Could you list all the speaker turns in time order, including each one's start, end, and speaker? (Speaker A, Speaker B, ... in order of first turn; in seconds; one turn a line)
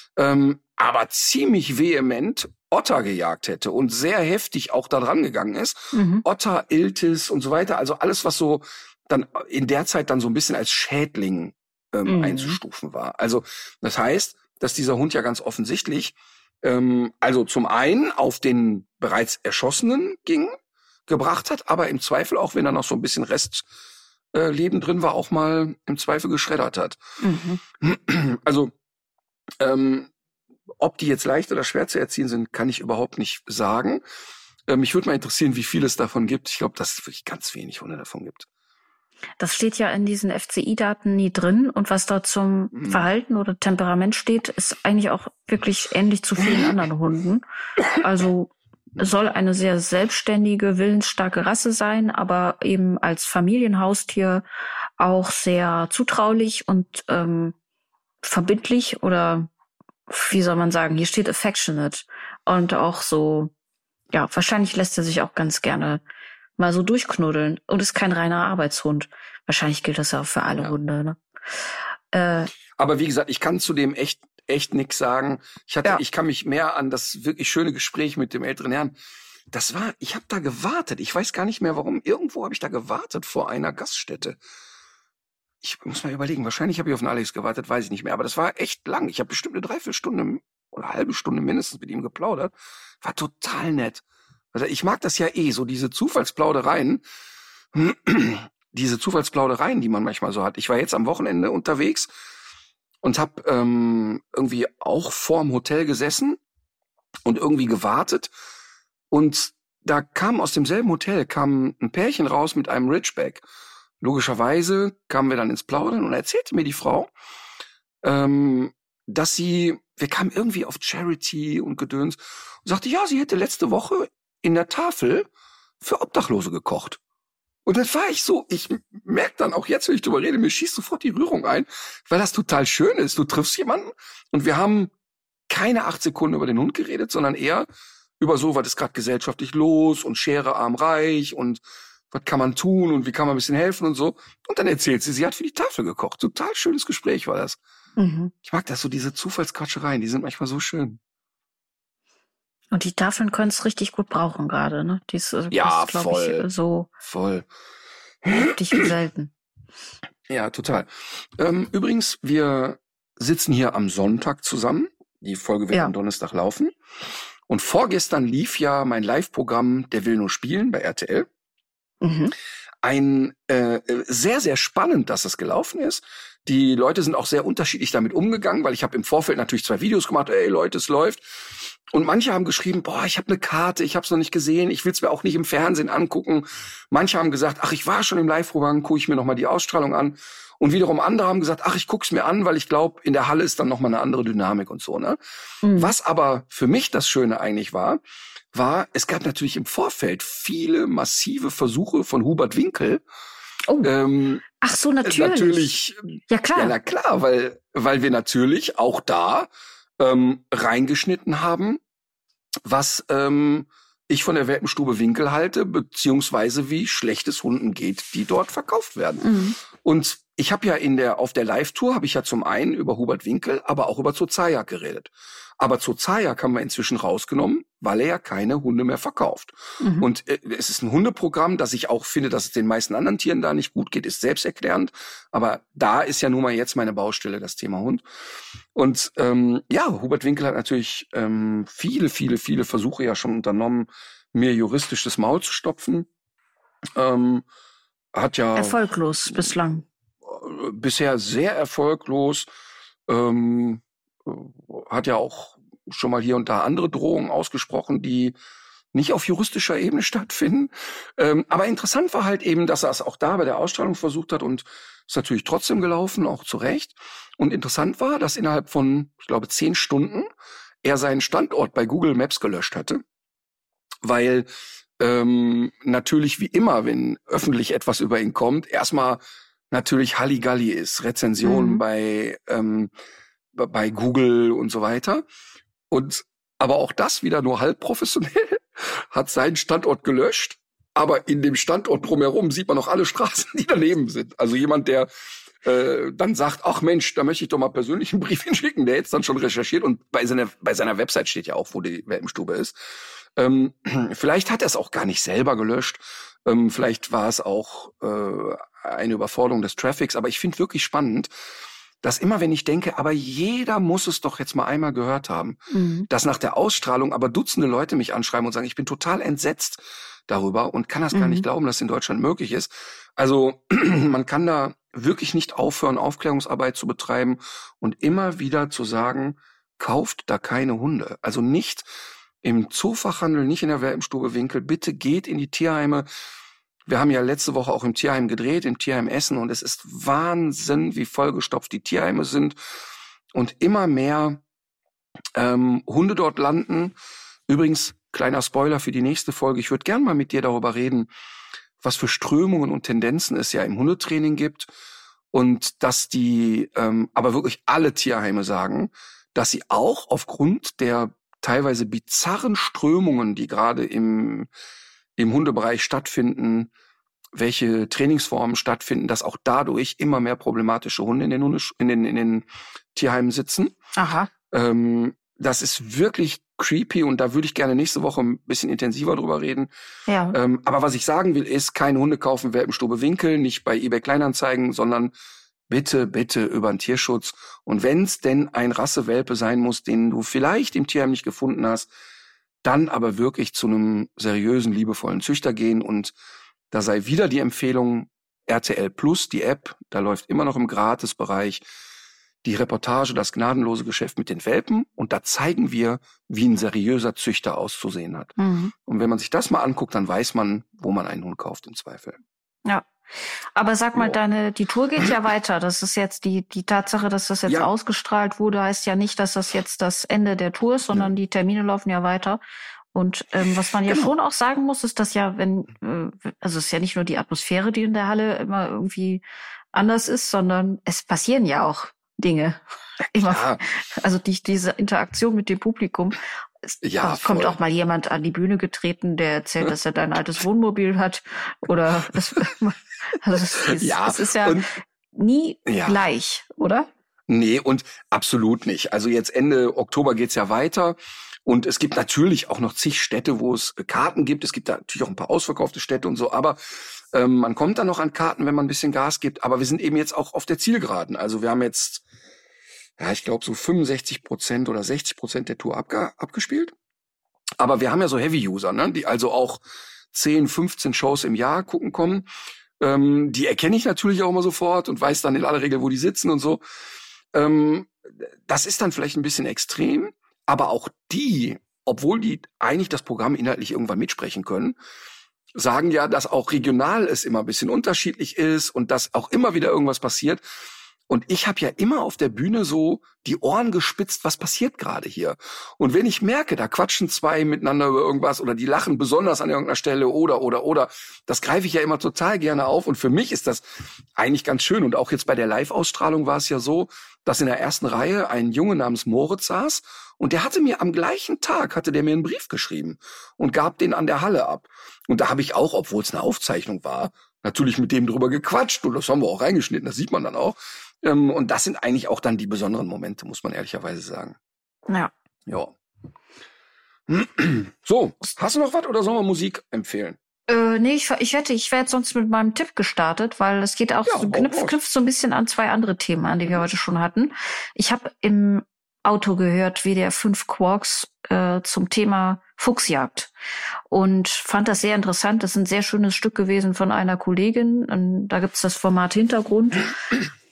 Speaker A: 0.1-23.6
Speaker B: 5.9-6.2
Speaker B: 12.1-12.6
Speaker A: 24.3-27.0
Speaker B: 27.2-27.6
Speaker A: 27.8-28.7
Speaker A: 29.6-30.1
Speaker A: 30.8-34.0
Speaker A: 34.7-38.5
Speaker B: 39.4-54.4
Speaker A: 42.7-43.0
Speaker B: 55.0-57.5
Speaker B: 58.2-59.5
Speaker B: 60.1-63.5
Speaker B: 64.1-66.0
Speaker B: 66.6-71.2
Speaker B: 72.1-72.5
Speaker A: 72.8-79.0
Speaker A: 79.5-84.4
Speaker A: 85.6-97.0
Speaker A: 97.7-102.1
Speaker A: 103.0-106.4
Speaker A: 107.2-108.3
Speaker A: 109.1-113.4
Speaker A: 114.0-117.1
Speaker A: 118.0-125.3
Speaker A: 125.8-127.0
Speaker A: 127.7-134.9
Speaker A: 135.5-137.7
Speaker A: 138.2-141.6
Speaker A: 142.1-147.6
Speaker B: 148.0-148.3
Speaker A: 148.4-151.0
Speaker B: 152.7-156.9
Speaker A: 155.5-156.5
Speaker A: 157.0-157.5
Speaker A: 158.2-158.9
Speaker B: 158.3-159.3
Speaker A: 160.3-166.7
Speaker A: 167.5-171.3
Speaker B: 172.0-172.3
Speaker A: 172.8-195.2
Speaker B: 195.6-195.9
Speaker A: 195.7-198.0
Speaker A: 198.5-203.0
Speaker A: 203.8-204.4
Speaker B: 204.6-205.7
Speaker A: 205.0-209.5
Speaker B: 206.3-206.7
Speaker A: 210.0-211.8
Speaker A: 212.6-238.0
Speaker B: 219.2-219.6
Speaker B: 229.8-230.1
Speaker A: 238.7-246.1
Speaker A: 246.9-247.4
Speaker A: 248.1-248.8
Speaker B: 248.5-249.8
Speaker A: 250.2-252.5
Speaker A: 253.1-258.3
Speaker A: 258.9-270.3
Speaker A: 270.8-273.0
Speaker A: 274.0-274.5
Speaker A: 275.0-282.9
Speaker B: 281.4-281.8
Speaker A: 283.5-285.2
Speaker A: 285.9-295.1
Speaker A: 295.6-302.8
Speaker A: 303.4-311.3
Speaker A: 312.0-331.9
Speaker B: 315.7-316.1
Speaker B: 321.1-321.4
Speaker A: 332.4-336.1
Speaker A: 336.9-342.6
Speaker A: 343.3-344.4
Speaker A: 345.4-346.9
Speaker A: 347.5-351.1
Speaker A: 351.8-354.7
Speaker A: 355.3-364.5
Speaker A: 365.2-366.7
Speaker A: 367.3-373.7
Speaker B: 374.0-374.3
Speaker A: 374.5-379.7
Speaker B: 380.1-380.4
Speaker A: 380.3-385.1
Speaker A: 385.7-391.9
Speaker A: 392.6-396.1
Speaker A: 396.7-401.6
Speaker A: 402.4-408.3
Speaker B: 408.4-408.7
Speaker A: 408.9-412.2
Speaker B: 412.6-422.4
Speaker B: 422.9-429.2
Speaker B: 429.7-444.6
Speaker A: 433.2-433.6
Speaker A: 436.8-437.6
Speaker A: 443.6-444.7
Speaker B: 445.1-446.9
Speaker A: 445.6-446.0
Speaker A: 447.3-462.0
Speaker A: 463.0-466.7
Speaker A: 467.6-469.6
Speaker A: 470.1-472.3
Speaker A: 472.8-476.6
Speaker A: 477.3-484.8
Speaker A: 485.5-490.4
Speaker A: 491.1-503.6
Speaker A: 504.1-524.4
Speaker A: 525.5-525.7
Speaker A: 527.1-530.2
Speaker B: 530.5-543.3
Speaker A: 534.0-534.8
Speaker B: 543.9-549.9